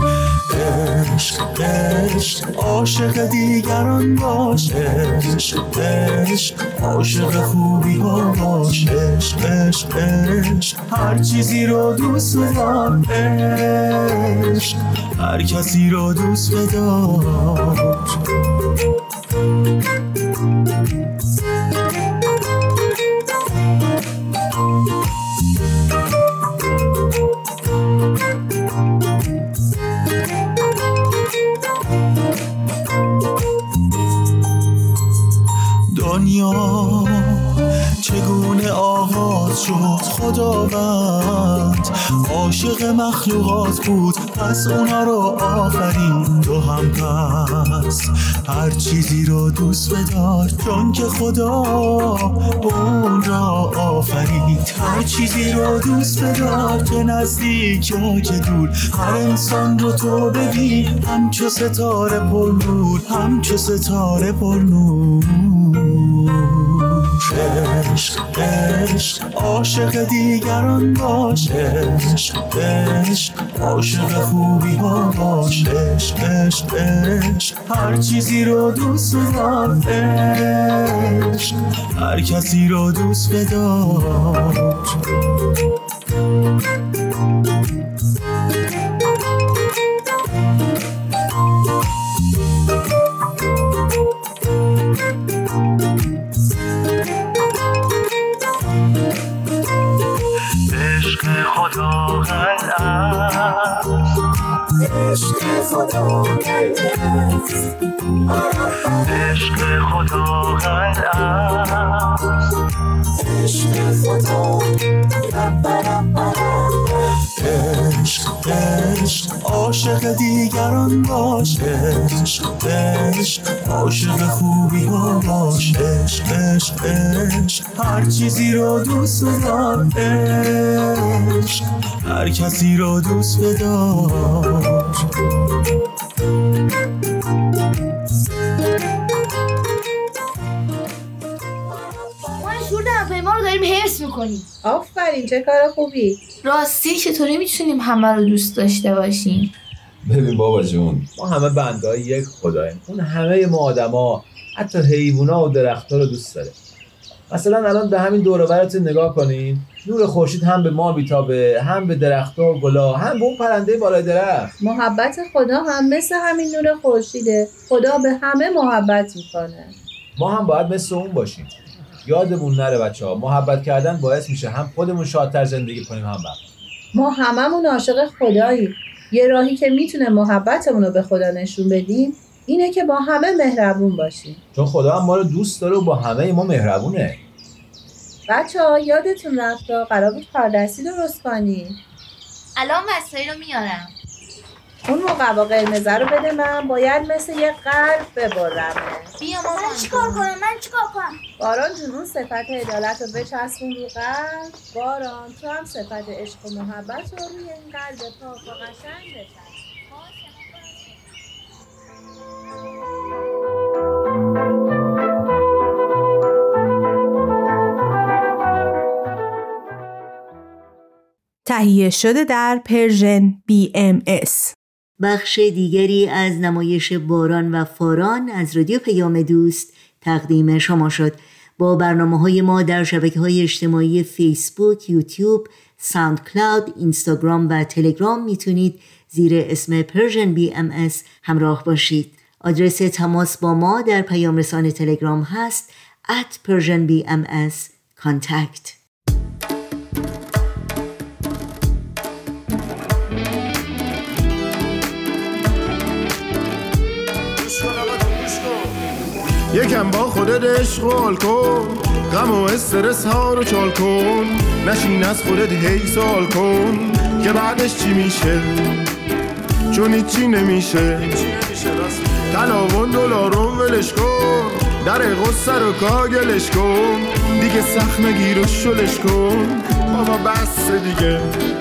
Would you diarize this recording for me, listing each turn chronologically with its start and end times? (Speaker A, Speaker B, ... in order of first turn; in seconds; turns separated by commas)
Speaker A: 0.5-18.1, Speaker A: 35.9-85.0, Speaker A: 100.7-103.9, Speaker A: 104.8-107.5, Speaker A: 108.3-112.2, Speaker A: 113.2-135.0, Speaker B: 142.4-144.5, Speaker C: 144.6-146.2, Speaker D: 146.4-149.5, Speaker E: 150.1-156.6, Speaker E: 157.3-164.6, Speaker C: 164.6-169.8, Speaker E: 170.2-171.5, Speaker E: 172.0-176.4, Speaker C: 176.9-184.4, Speaker E: 184.5-187.2, Speaker C: 188.3-191.8, Speaker D: 192.6-193.9, Speaker C: 194.9-199.1, Speaker D: 199.2-200.3, Speaker B: 199.4-201.2, Speaker C: 201.4-209.6, Speaker D: 209.9-210.9, Speaker F: 221.4-224.5, Speaker G: 225.0-248.8, Speaker H: 257.5-258.5, Speaker H: 259.5-268.9, Speaker H: 269.7-281.3